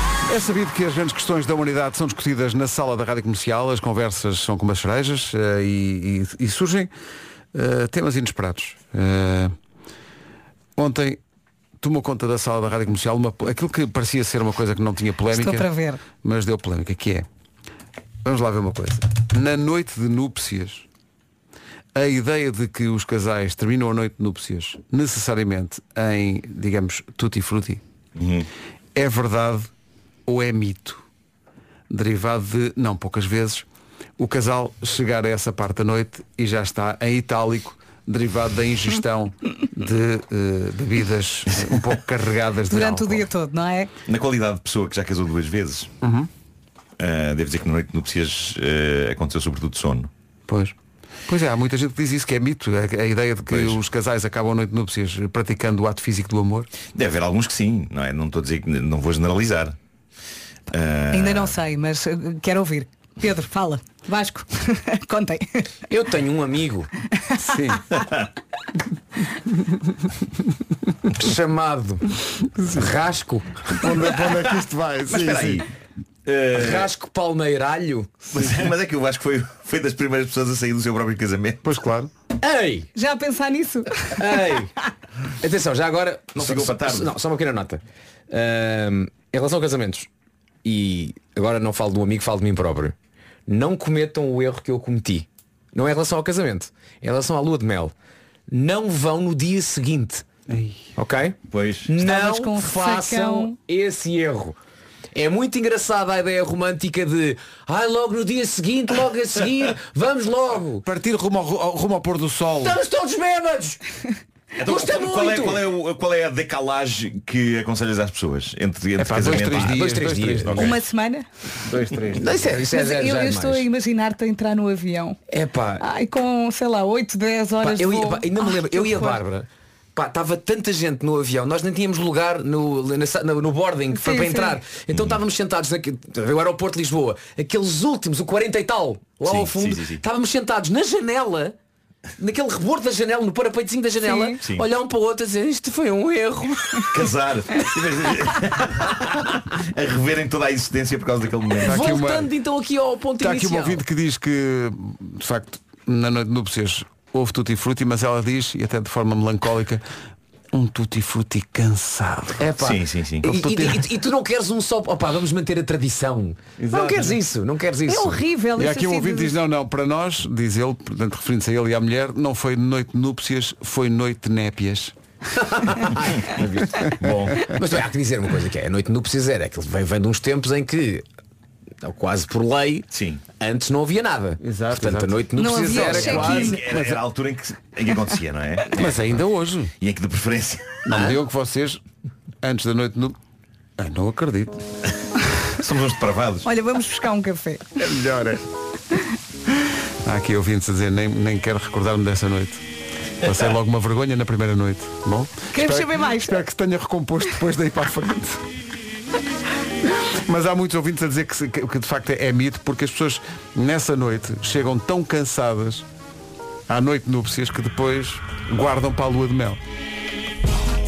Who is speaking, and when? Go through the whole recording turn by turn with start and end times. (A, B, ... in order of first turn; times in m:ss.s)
0:00.3-0:06.9 A
0:07.5-0:09.6 A
0:10.8-0:11.2 A
0:11.8-0:17.3 A
0:15.3-0:16.0 B
0:18.2-0:20.9 A
0:22.0-0:27.8 A
0:28.2-0:28.5 C
0:29.0-0:29.7 A
0:30.3-0:31.0 A
0:31.9-0:33.7 A
0:34.2-0:43.3 A
0:42.7-0:43.9 B
0:44.1-0:45.9 C
0:46.0-0:46.3 A
0:47.0-0:50.1 C
0:50.5-0:50.7 A
0:51.3-0:56.7 A
0:53.5-0:53.8 C
0:57.0-0:59.8 C
1:00.7-1:01.6 C
1:01.1-1:05.7 B
1:05.9-1:06.9 D
1:07.4-1:07.8 A
1:07.9-1:08.3 C
1:11.2-1:12.0 D
1:12.6-1:12.9 A
1:12.7-1:13.8 D
1:13.7-1:15.6 A
1:15.1-1:15.6 C
1:16.3-1:16.9 C
1:16.5-1:18.1 D
1:18.3-1:21.6 C
1:21.6-1:22.1 A
1:22.4-1:22.9 D
1:23.0-1:24.2 B
1:24.2-1:24.7 D
1:25.4-1:30.1 D
1:26.3-1:27.1 C
1:30.6-1:33.0 D
1:33.5-1:37.9 D
1:38.5-1:40.2 D
1:40.5-1:40.8 A
1:41.0-1:44.6 D
1:41.5-1:41.9 C
1:42.0-1:43.6 B
1:45.1-1:50.8 D
1:50.8-1:52.8 A
1:52.6-1:53.8 D
1:54.6-1:59.8 C
1:54.6-1:55.7 D
1:59.0-2:00.7 A
1:59.5-2:00.8 D
2:00.6-2:01.3 B
2:01.7-2:02.3 A
2:02.1-2:03.7 D
2:02.7-2:05.2 B
2:05.3-2:05.8 D
2:05.8-2:09.2 B
2:07.6-2:21.6 D
2:13.9-2:14.6 B
2:14.9-2:15.2 C
2:19.2-2:20.0 C
2:22.2-2:27.0 D
2:24.0-2:24.4 B
2:26.9-2:31.8 C
2:31.6-2:33.8 D
2:31.7-2:32.3 A
2:33.2-2:39.8 A
2:40.5-2:42.4 A
2:42.4-2:48.2 D
2:42.6-2:43.3 C
2:43.2-2:43.8 A
2:46.7-2:47.1 C
2:47.9-2:49.4 B
2:48.6-2:55.0 A
2:55.4-3:01.0 D
2:57.0-2:57.5 C
3:01.8-3:06.6 D
3:02.9-3:03.2 C
3:04.4-3:05.2 A
3:05.4-3:06.6 B
3:05.7-3:07.0 A
3:06.1-3:09.1 C
3:08.8-3:09.7 A
3:09.8-3:10.8 C
3:10.8-3:11.8 A
3:10.9-3:11.2 D
3:12.4-3:13.2 A
3:13.8-3:14.6 A
3:15.6-3:16.5 C
3:16.4-3:17.7 B
3:17.8-3:18.4 A
3:20.1-3:22.6 A
3:23.2-3:28.4 A
3:25.5-3:26.4 B
3:30.3-3:35.9 A
3:36.7-3:39.6 A